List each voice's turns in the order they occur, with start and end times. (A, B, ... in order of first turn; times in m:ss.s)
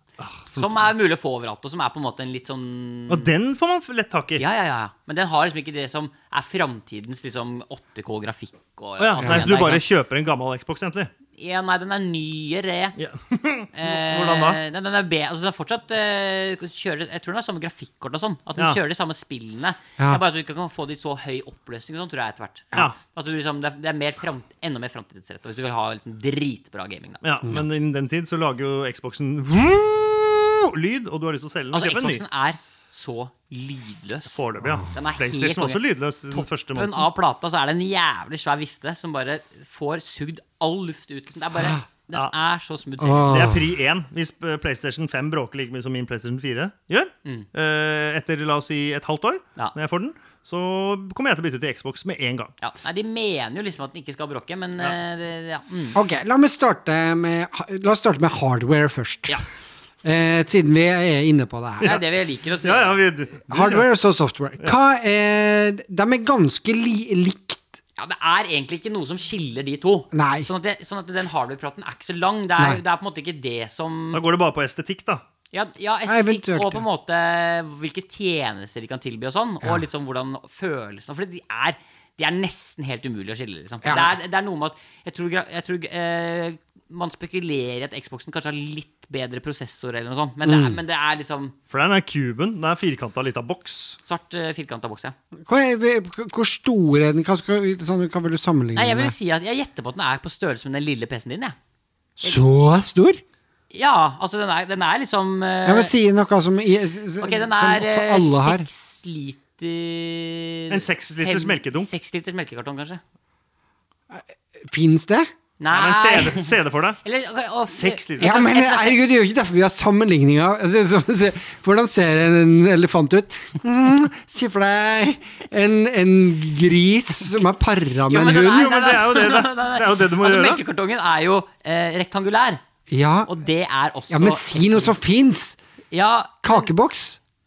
0:00.2-0:00.5 A
0:00.5-0:03.3 B
0:03.1-0:04.4 A
0:04.4-0:09.8 B
0:09.0-0:11.1 A
0:09.2-0:09.5 C
0:11.4-0:12.9 B
0:13.0-0:14.6 A
0:13.7-0:27.2 B
0:27.2-0:32.2 A
0:31.7-0:34.4 B
0:34.3-0:37.0 A
0:34.6-0:34.9 C
0:34.9-0:43.5 B
0:43.0-0:43.7 C
0:43.3-0:52.5 A
0:52.6-0:56.0 B
0:55.9-0:59.4 C
1:00.0-1:02.0 C
1:01.8-1:03.0 B
1:02.6-1:03.9 A
1:03.5-1:07.7 C
1:08.0-1:14.2 B
1:10.1-1:10.5 C
1:14.1-1:15.2 A
1:15.5-1:31.5 B
1:16.1-1:16.8 C
1:23.8-1:24.1 C
1:30.4-1:30.8 C
1:31.7-1:34.0 A
1:34.0-1:35.1 B
1:35.4-1:39.1 C
1:38.7-1:41.5 B
1:42.2-1:43.2 C
1:43.7-1:45.9 B
1:45.6-1:48.7 C
1:47.2-1:53.0 B
1:50.7-1:51.9 A
1:54.1-1:55.3 C
1:55.6-1:56.5 B
1:55.7-1:57.0 A
1:57.0-1:59.0 B
1:57.7-1:58.4 A
1:58.2-2:08.7 C
2:08.1-2:12.6 B
2:08.4-2:10.6 A
2:12.9-2:13.3 C
2:13.2-2:14.9 B
2:14.1-2:15.6 C
2:15.9-2:16.7 B
2:16.4-2:17.2 C